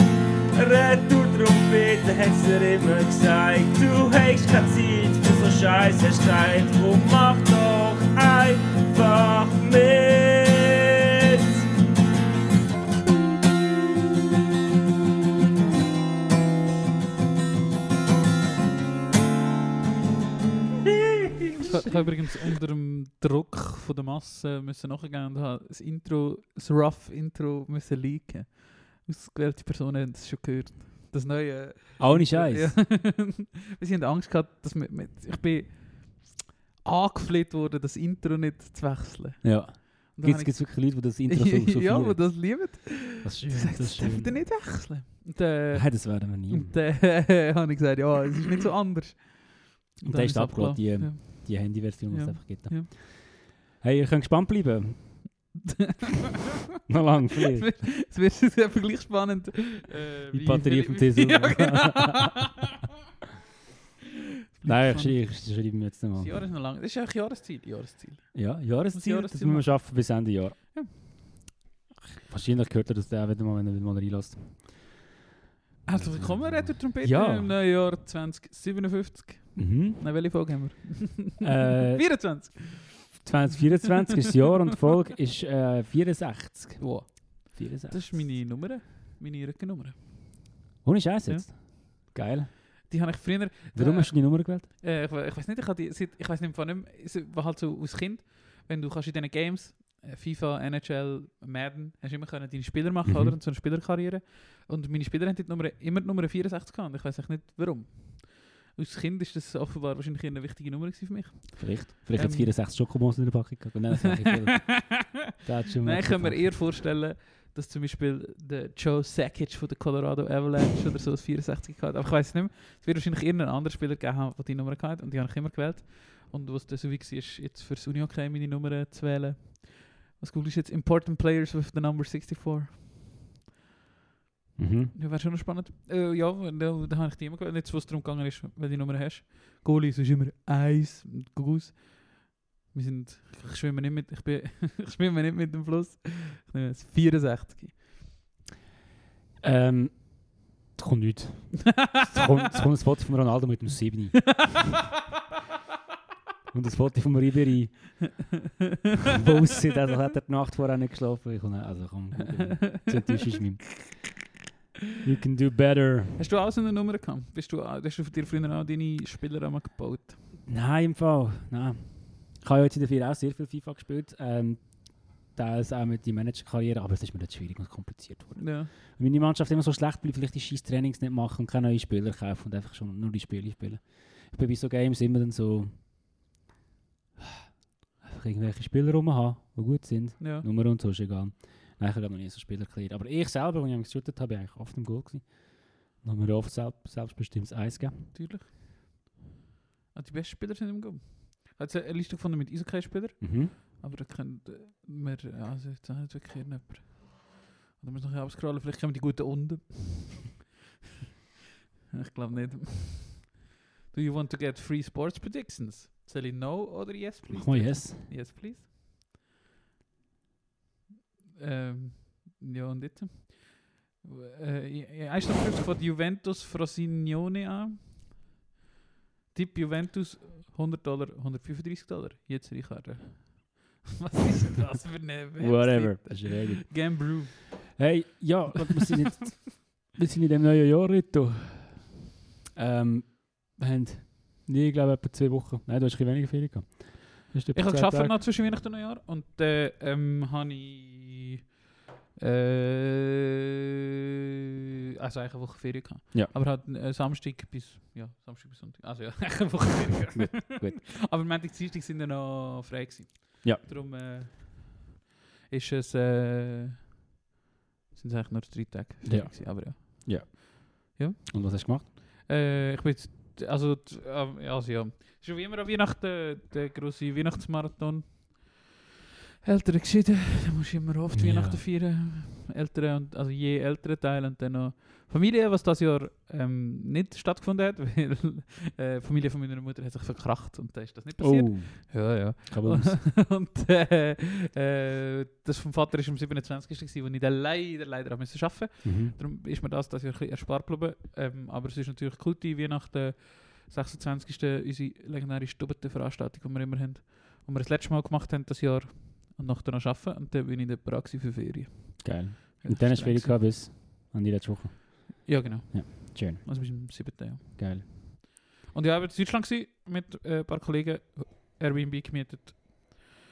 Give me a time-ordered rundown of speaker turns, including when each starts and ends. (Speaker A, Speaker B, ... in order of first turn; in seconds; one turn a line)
Speaker A: 0.5-11.7
Speaker A: 21.4-21.7
Speaker B: 21.6-52.9
Speaker C: 32.0-32.8
Speaker C: 39.4-44.4
Speaker C: 45.7-46.8
Speaker C: 50.0-55.4
Speaker B: 55.6-56.3
Speaker C: 56.8-57.9
Speaker B: 57.6-62.8
Speaker C: 60.3-62.5
Speaker B: 64.6-65.3
Speaker C: 64.6-66.3
Speaker B: 66.2-70.0
Speaker C: 68.3-71.0
Speaker C: 72.2-75.0
Speaker B: 75.8-83.3
Speaker C: 75.9-77.6
Speaker C: 79.6-80.1
Speaker C: 81.4-88.3
Speaker B: 86.8-90.5
Speaker C: 90.8-92.5
Speaker B: 91.3-92.1
Speaker B: 92.9-112.5
Speaker C: 93.8-94.7
Speaker C: 103.1-103.4
Speaker C: 111.6-116.7
Speaker B: 114.0-115.0
Speaker B: 115.8-132.8
Speaker C: 134.6-134.9
Speaker B: 134.9-147.8
Speaker C: 149.4-154.6
Speaker C: 156.5-158.2
Speaker C: 159.1-164.0
Speaker C: 165.0-166.2
Speaker B: 166.2-170.2
Speaker C: 170.4-185.8
Speaker B: 178.4-178.7
Speaker C: 188.0-198.1
Speaker B: 190.2-190.4
Speaker B: 198.1-199.0
Speaker B: 199.9-210.4
Speaker C: 203.2-203.5
Speaker B: 211.9-218.7
Speaker C: 217.3-218.1
Speaker B: 221.4-228.2
Speaker B: 229.3-237.8
Speaker C: 235.4-237.2
Speaker C: 237.8-248.2
Speaker B: 247.5-251.5
Speaker B: 252.2-253.5
Speaker B: 255.0-264.9
Speaker C: 260.1-260.9
Speaker B: 265.5-266.9
Speaker B: 267.9-270.4
Speaker C: 269.0-270.6
Speaker B: 270.9-278.7
Speaker C: 271.3-271.9
Speaker B: 279.4-313.4
Speaker C: 281.1-281.6
Speaker C: 291.2-293.0
Speaker C: 298.8-299.1
Speaker C: 312.0-316.9
Speaker B: 315.2-323.1
Speaker C: 317.6-317.9